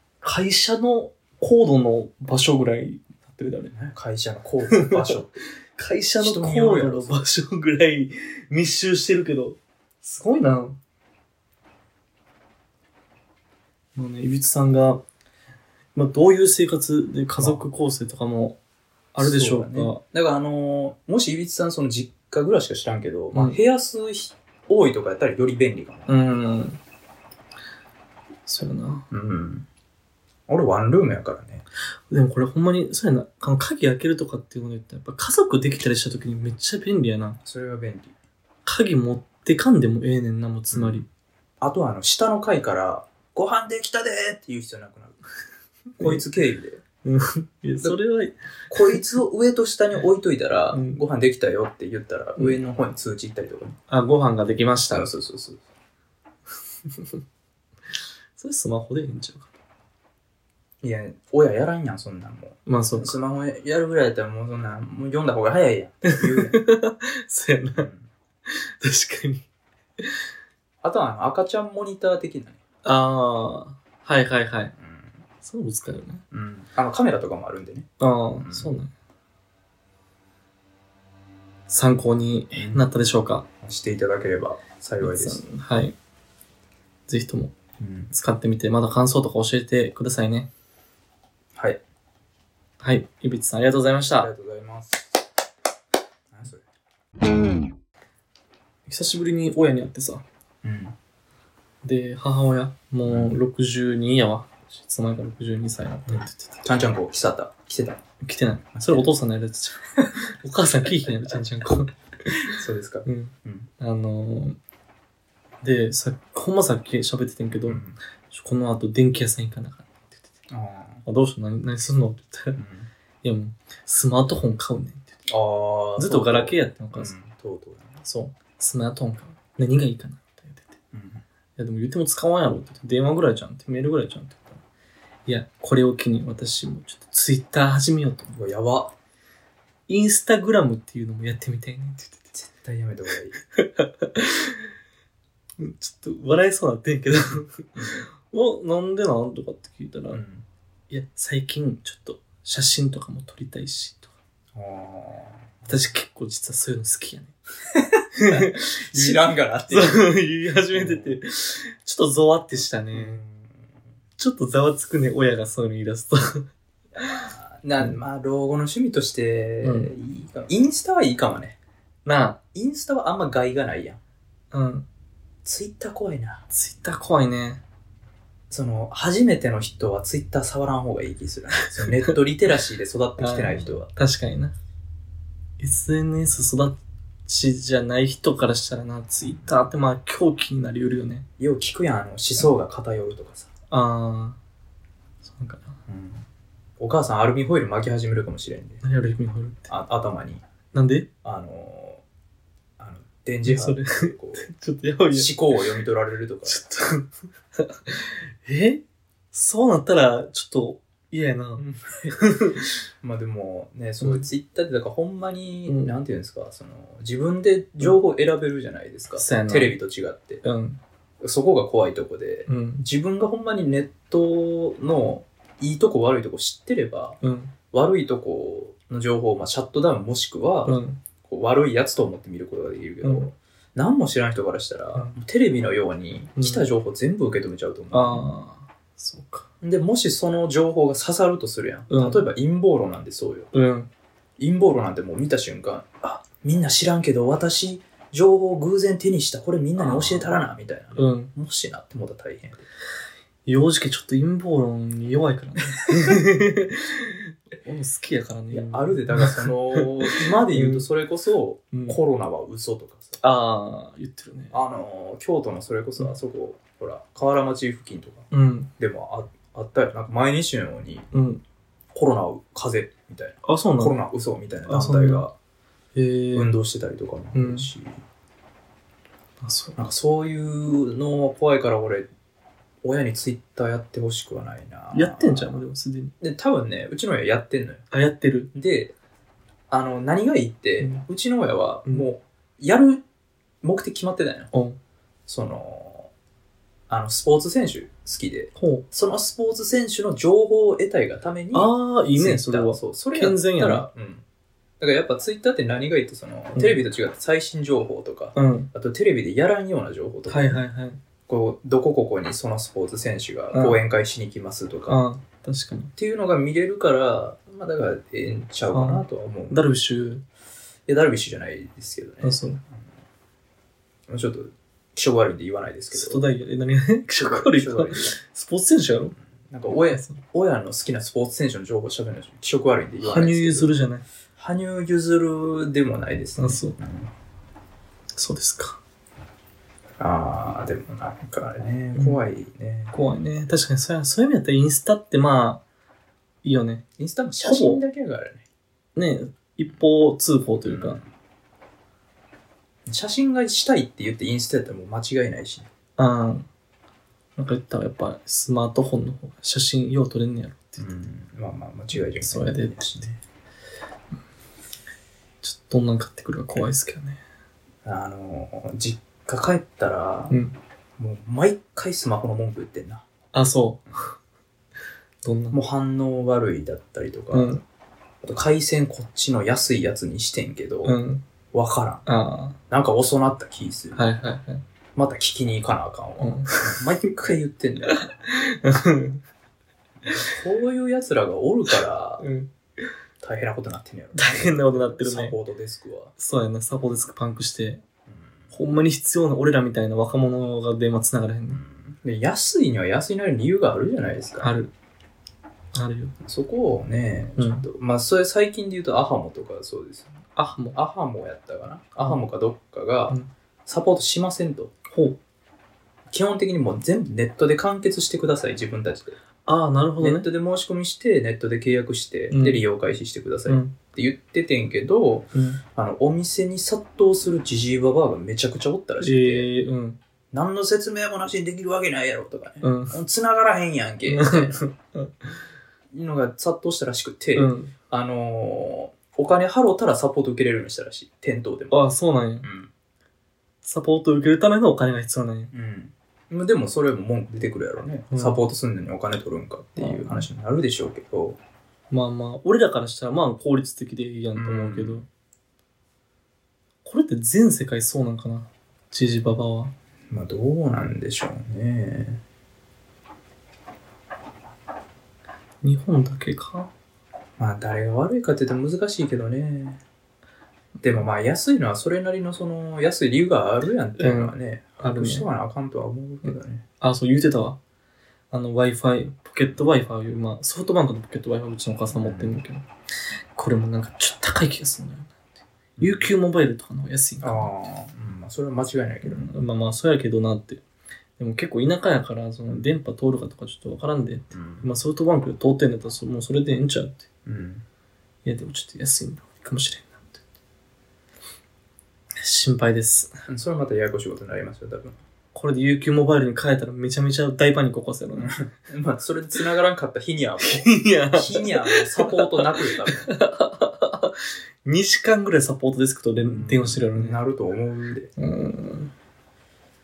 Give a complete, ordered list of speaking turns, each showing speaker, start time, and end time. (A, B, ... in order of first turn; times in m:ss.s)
0:00.2-0:03.7 A
0:03.7-0:05.4 B
0:04.7-0:05.1 A
0:05.8-0:10.8 A
0:06.2-0:07.2 B
0:14.0-0:15.0 A
0:16.0-0:18.6 A
0:19.1-0:20.0 A
0:19.2-0:26.1 B
0:26.1-0:26.8 A
0:28.4-0:29.0 A
0:29.1-0:29.7 B
0:30.5-0:31.6 B
0:32.1-0:37.4 A
0:37.4-0:38.2 B
0:38.6-0:41.1 A
0:40.7-0:41.0 B
0:41.6-0:45.2 B
0:46.0-0:46.2 A
0:46.0-0:46.8 B
0:47.0-0:48.3 A
0:48.7-0:53.8 B
0:50.7-0:51.0 A
0:53.9-0:55.1 A
0:54.9-0:55.6 B
0:58.4-0:59.5 A
1:00.8-1:06.6 B
1:02.6-1:03.2 A
1:06.0-1:07.9 A
1:07.7-1:08.1 B
1:08.5-1:09.4 A
1:10.8-1:12.6 B
1:12.8-1:14.7 A
1:14.8-1:15.2 B
1:15.4-1:16.2 A
1:16.3-1:17.9 B
1:18.0-1:18.9 A
1:18.4-1:18.7 B
1:21.7-1:23.4 A
1:22.5-1:22.8 B
1:23.6-1:25.4 B
1:25.0-1:26.0 A
1:27.1-1:27.5 A
1:27.8-1:28.1 B
1:28.1-1:30.5 A
1:31.6-1:31.8 B
1:32.8-1:34.3 A
1:34.2-1:35.1 B
1:36.3-1:36.6 B
1:38.9-1:40.2 A
1:40.6-1:41.0 B
1:41.8-1:46.6 A
1:43.1-1:43.4 B
1:46.1-1:48.0 B
1:48.2-1:52.5 A
1:48.7-1:49.1 B
1:52.4-1:53.7 B
1:53.0-1:54.6 A
1:55.6-2:00.2 A
1:57.6-1:58.0 B
2:00.5-2:01.0 B
2:01.0-2:02.6 A
2:02.6-2:02.9 B
2:03.2-2:05.1 A
2:05.3-2:08.0 B
2:06.0-2:07.1 A
2:08.0-2:10.7 A
2:10.9-2:11.2 B
2:11.6-2:14.6 A
2:15.3-2:18.3 A
2:18.3-2:18.9 B
2:19.9-2:22.3 A
2:22.3-2:23.4 B
2:23.6-2:24.7 A
2:25.6-2:30.2 A
2:27.8-2:28.0 B
2:30.1-2:30.4 B
2:30.9-2:34.1 A
2:34.5-2:35.8 B
2:35.7-2:37.3 A
2:37.7-2:40.1 B
2:38.2-2:43.2 A
2:40.7-2:41.2 B
2:42.9-2:43.6 B
2:44.2-2:48.0 A
2:47.0-2:51.6 B
2:49.6-2:49.9 A
2:52.0-2:52.4 A
2:52.5-2:54.0 B
2:54.5-2:54.8 A
2:55.4-2:56.4 B
2:56.5-2:57.6 A
2:58.5-3:03.9 B
3:01.8-3:02.1 A
3:03.2-3:04.5 A
3:05.6-3:11.2 A
3:11.4-3:13.5 B
3:13.7-3:14.4 A
3:15.2-3:15.8 A
3:15.9-3:16.3 B
3:16.8-3:18.8 B
3:18.8-3:19.7 A
3:19.7-3:20.4 B
3:20.7-3:21.1 A
3:21.2-3:22.0 B
3:22.8-3:24.5 B
3:23.4-3:25.3 A
3:25.1-3:26.6 B
3:26.4-3:28.8 A
3:29.3-3:32.8 A
3:31.6-3:32.2 B
3:33.0-3:40.4 B
3:34.0-3:34.3 A
3:35.7-3:36.0 A
3:39.1-3:39.8 A
3:40.4-3:40.8 A
3:41.2-3:47.2 B
3:42.5-3:42.8 A
3:47.2-3:47.5 A
3:47.7-3:58.3 B
3:50.6-3:51.0 A
3:53.0-3:53.3 A
3:56.4-3:56.6 A
3:57.9-3:59.5 A
3:59.6-4:03.5 B
4:01.9-4:02.2 A
4:03.5-4:03.9 A
4:04.4-4:12.6 B
4:09.8-4:10.3 A
4:11.0-4:11.3 A
4:13.4-4:20.8 A
4:18.5-4:23.2 B
4:21.7-4:22.0 A
4:23.2-4:24.6 A
4:24.5-4:31.1 B
4:28.3-4:28.7 A
4:31.1-4:31.4 A
4:31.9-4:35.3 B
4:33.4-4:34.0 A
4:34.7-4:35.2 A
4:36.0-4:36.5 A
4:36.3-4:38.0 B
4:37.3-4:37.7 A
4:39.4-4:39.8 A
4:39.8-4:42.1 B
4:42.8-4:45.6 B
4:44.9-4:46.1 A
4:46.2-4:47.8 B
4:47.9-4:48.5 A
4:48.5-4:49.0 B
4:49.7-4:53.0 B
4:53.6-4:54.5 B
4:54.5-4:54.8 A
4:55.3-4:56.1 B
4:56.9-5:04.2 B
4:58.6-4:58.8 A
5:01.5-5:03.9 A
5:04.8-5:10.6 B
5:08.3-5:08.7 A
5:10.3-5:11.0 A
5:11.3-5:15.0 B
5:13.5-5:13.8 A
5:14.9-5:15.9 A
5:16.0-5:19.6 B
5:18.7-5:20.2 A
5:20.9-5:22.9 B
5:22.2-5:22.6 A
5:24.1-5:26.3 B
5:25.9-5:29.1 A
5:27.1-5:28.2 B
5:29.4-5:37.1 B
5:29.9-5:30.2 A
5:33.0-5:34.0 A
5:36.4-5:36.8 A
5:38.1-5:38.8 A
5:40.0-5:43.0 B
5:41.9-5:42.2 A
5:42.9-5:45.6 A
5:46.4-5:46.8 A
5:47.0-5:48.4 B
5:47.4-5:47.8 A
5:49.0-5:51.0 A
5:50.6-5:51.1 B
5:52.9-5:55.7 B
5:56.0-5:56.5 A
5:57.4-6:00.9 A
6:00.8-6:03.2 B
6:01.9-6:03.1 A
6:05.4-6:07.2 A
6:07.8-6:10.3 B
6:10.3-6:10.6 A
6:11.0-6:13.0 B
6:13.3-6:14.1 A
6:15.2-6:15.6 A
6:15.5-6:17.5 B
6:17.3-6:17.6 A
6:18.2-6:21.0 B
6:20.8-6:21.2 A
6:21.5-6:22.0 B
6:22.0-6:22.6 A
6:22.7-6:24.0 B
6:24.0-6:24.6 A
6:25.0-6:28.2 B
6:26.2-6:26.8 A
6:27.9-6:29.2 A
6:30.0-6:32.3 B
6:32.2-6:32.9 A
6:33.2-6:36.1 B
6:34.1-6:35.4 A
6:36.2-6:37.8 A
6:38.5-6:41.6 A
6:41.5-6:44.5 B
6:44.4-6:44.7 A
6:45.7-6:46.1 A
6:46.2-6:50.1 B
6:47.4-6:47.7 A
6:50.4-6:50.8 A
6:50.7-6:54.7 B
6:54.9-6:55.2 A
6:56.1-6:59.2 B
6:59.4-7:00.3 A
7:00.0-7:09.5 B
7:02.3-7:02.6 A
7:03.5-7:03.7 A
7:05.3-7:05.6 A
7:09.0-7:10.0 A
7:10.3-7:14.6 B
7:12.6-7:13.0 A
7:14.0-7:15.3 A
7:15.9-7:21.8 B
7:17.3-7:17.7 A
7:21.7-7:22.5 A
7:22.4-7:22.7 B
7:23.6-7:25.5 A
7:25.5-7:31.4 B
7:28.1-7:28.4 A
7:29.8-7:30.3 A
7:31.9-7:35.0 A
7:34.3-7:35.0 B
7:36.8-7:39.7 A
7:40.1-7:42.2 B
7:45.6-7:46.7 A
7:47.4-7:49.8 B
7:50.8-7:56.6 B
7:54.0-7:55.3 A
7:56.8-7:57.6 A
7:58.3-8:02.6 A
8:01.9-8:02.4 B
8:03.3-8:05.1 A
8:05.8-8:06.1 B
8:05.8-8:07.5 A
8:07.2-8:09.3 B
8:09.0-8:10.6 A
8:11.2-8:17.0 A
8:14.3-8:14.7 B
8:17.3-8:17.6 B
8:18.2-8:20.2 A
8:22.2-8:23.1 A
8:23.3-8:25.0 B
8:25.3-8:28.4 A
8:28.2-8:33.1 B
8:30.4-8:37.2 A
8:36.2-8:38.1 B
8:38.2-8:38.9 A